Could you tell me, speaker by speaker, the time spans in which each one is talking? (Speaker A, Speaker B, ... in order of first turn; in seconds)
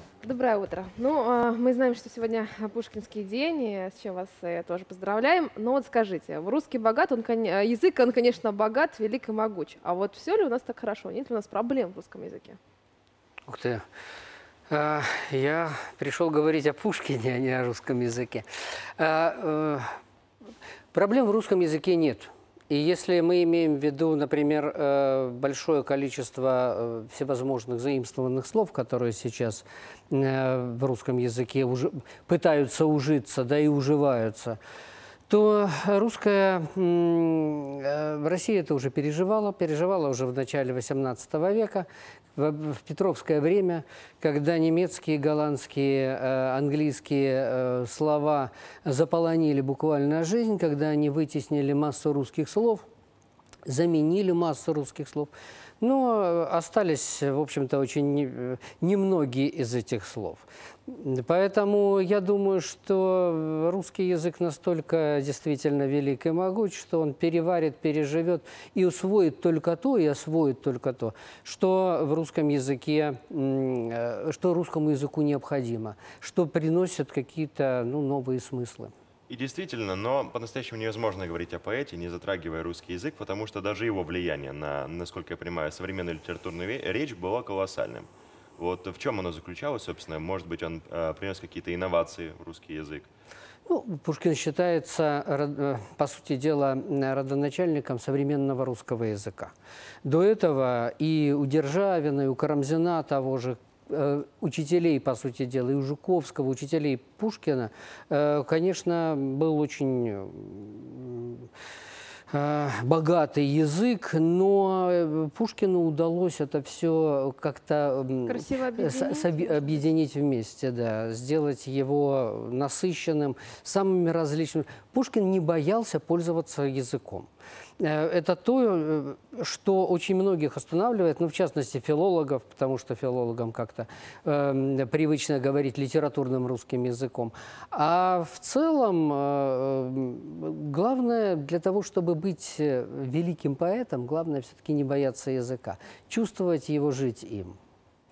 Speaker A: 0.2-12.6, 118.3-119.8
Speaker B: 13.5-13.8, 14.7-18.4, 19.0-19.9, 20.9-34.6, 35.3-52.8, 53.6-78.9, 93.7-99.5, 100.0-111.5, 112.3-127.3, 127.8-147.6
Speaker C: 79.3-93.1